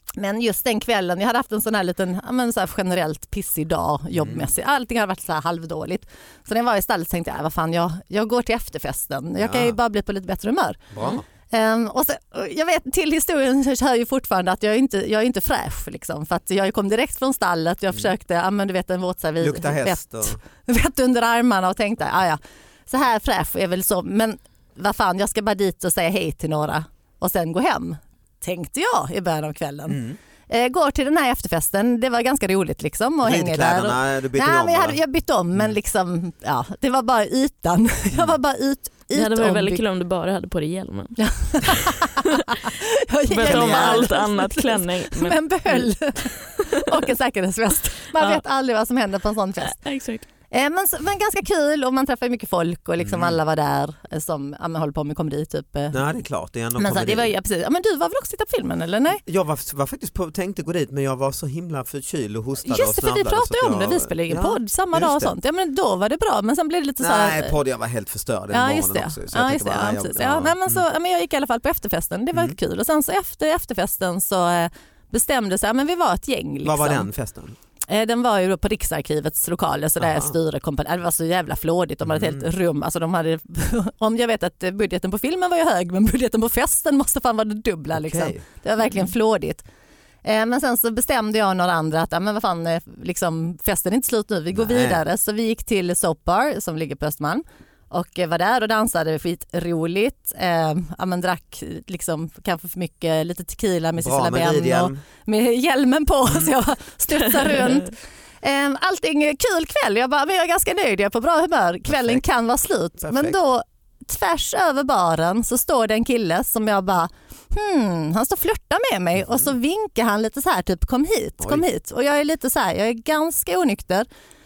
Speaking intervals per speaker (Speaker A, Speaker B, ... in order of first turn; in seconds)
Speaker A: 0.2-39.8, 41.2-49.8, 50.5-56.0, 56.8-59.2, 62.6-67.6, 68.5-77.1, 77.9-89.6, 90.2-124.1
Speaker B: 4.2-4.5, 9.4-9.8, 10.9-11.2, 19.4-20.4, 29.9-30.2, 33.2-35.0, 43.4-44.1, 53.0-53.4, 55.9-57.3, 59.1-65.3, 67.0-70.8, 76.6-77.5, 80.0-80.3, 82.0-82.5, 87.9-88.4, 94.5-95.0, 104.0-105.0, 106.3-106.5, 111.9-112.2, 113.0-113.4
Speaker C: 39.1-42.2, 43.3-45.9, 46.6-47.0, 48.1-48.4, 49.6-50.2